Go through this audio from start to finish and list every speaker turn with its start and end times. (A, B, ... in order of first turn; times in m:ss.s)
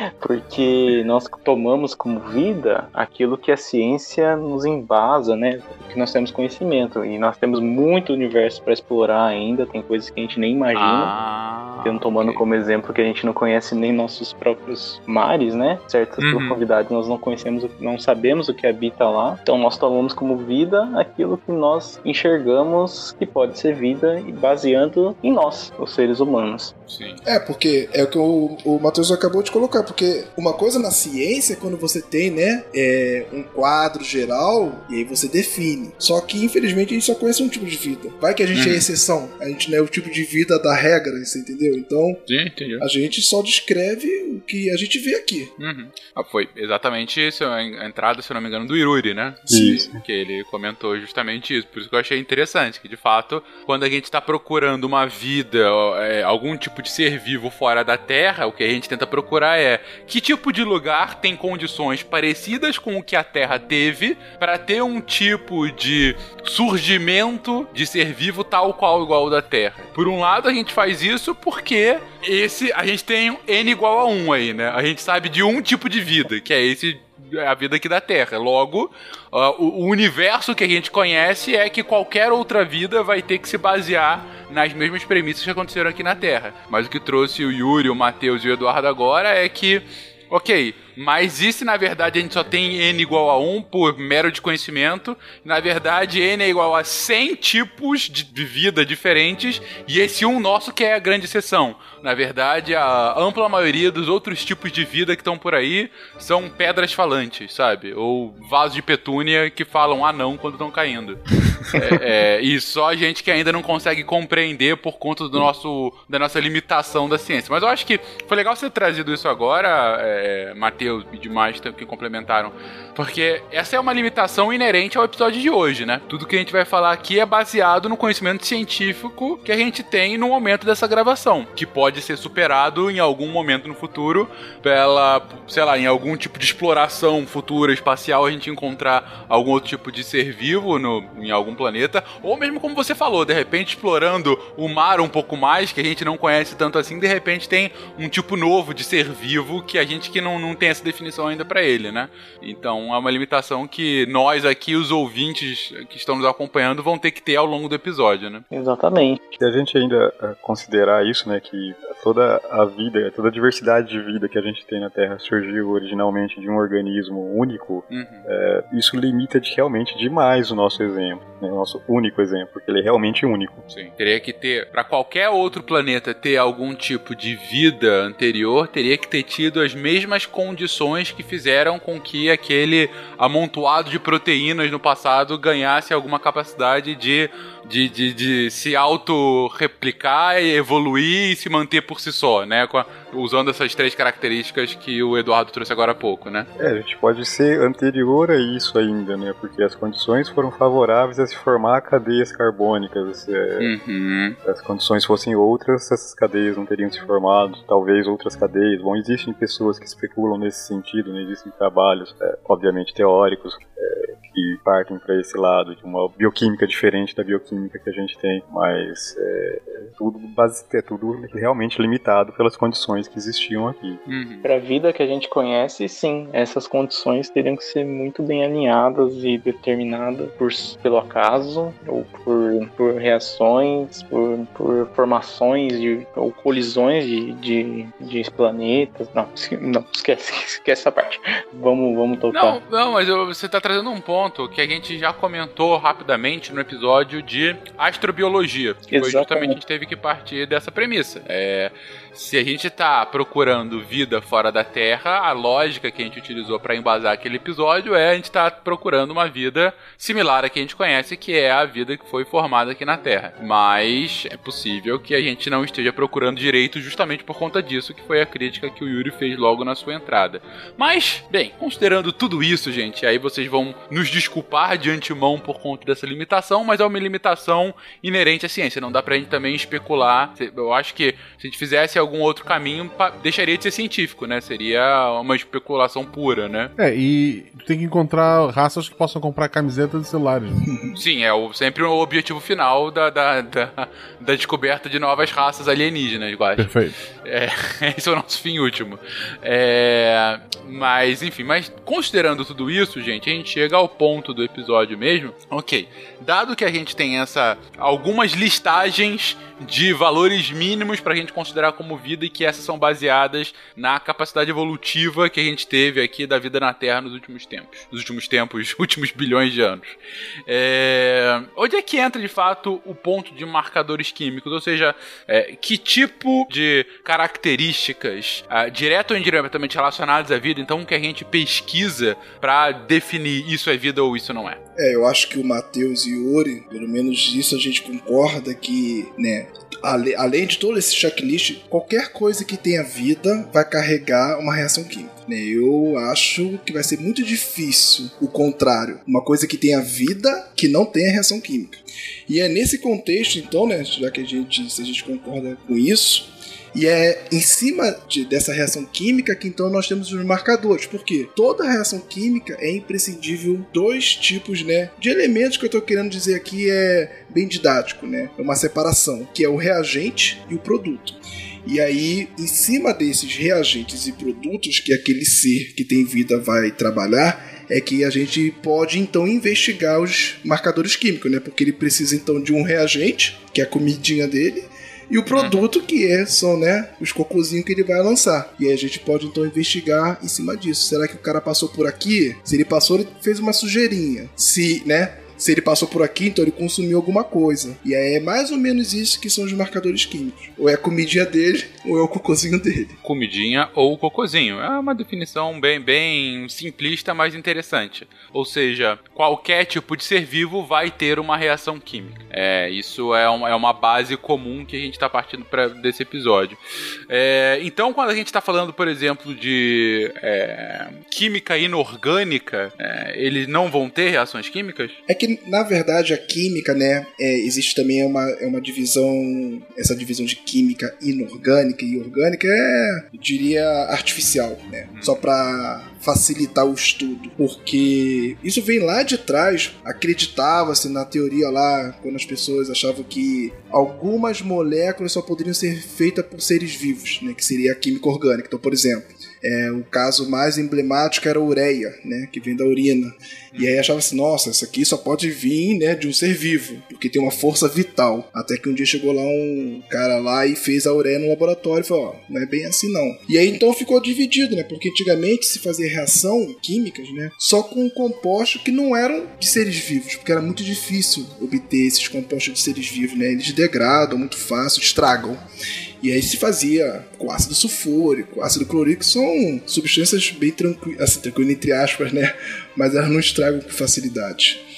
0:00.2-0:11.1 A
0:10.7-0:12.4 B
0:11.8-0:26.7 A
0:16.2-0:16.6 B
0:26.9-0:27.2 B
0:27.2-0:42.2 C
0:38.5-0:38.8 B
0:42.3-0:42.8 B
0:42.8-0:45.5 C
0:45.6-2:38.4 B
0:49.5-0:49.8 C
0:49.5-0:50.0 D
2:38.5-2:39.2 A
2:39.4-2:53.6 D
2:47.9-2:48.2 B
2:53.7-3:16.5 B
3:16.6-3:23.7 D
3:23.6-3:24.4 B
3:24.4-3:44.0 D
3:44.1-3:44.5 B
3:44.4-4:02.6 A
4:02.3-4:46.7 B
4:08.9-4:09.6 A
4:46.8-4:50.7 E
4:50.9-5:34.6 B
4:56.6-4:57.0 E
5:34.8-6:43.0 C
6:25.3-6:25.6 B
6:43.0-7:05.0 B
7:05.1-7:55.4 C
7:14.9-7:15.2 B
7:56.0-8:04.6 C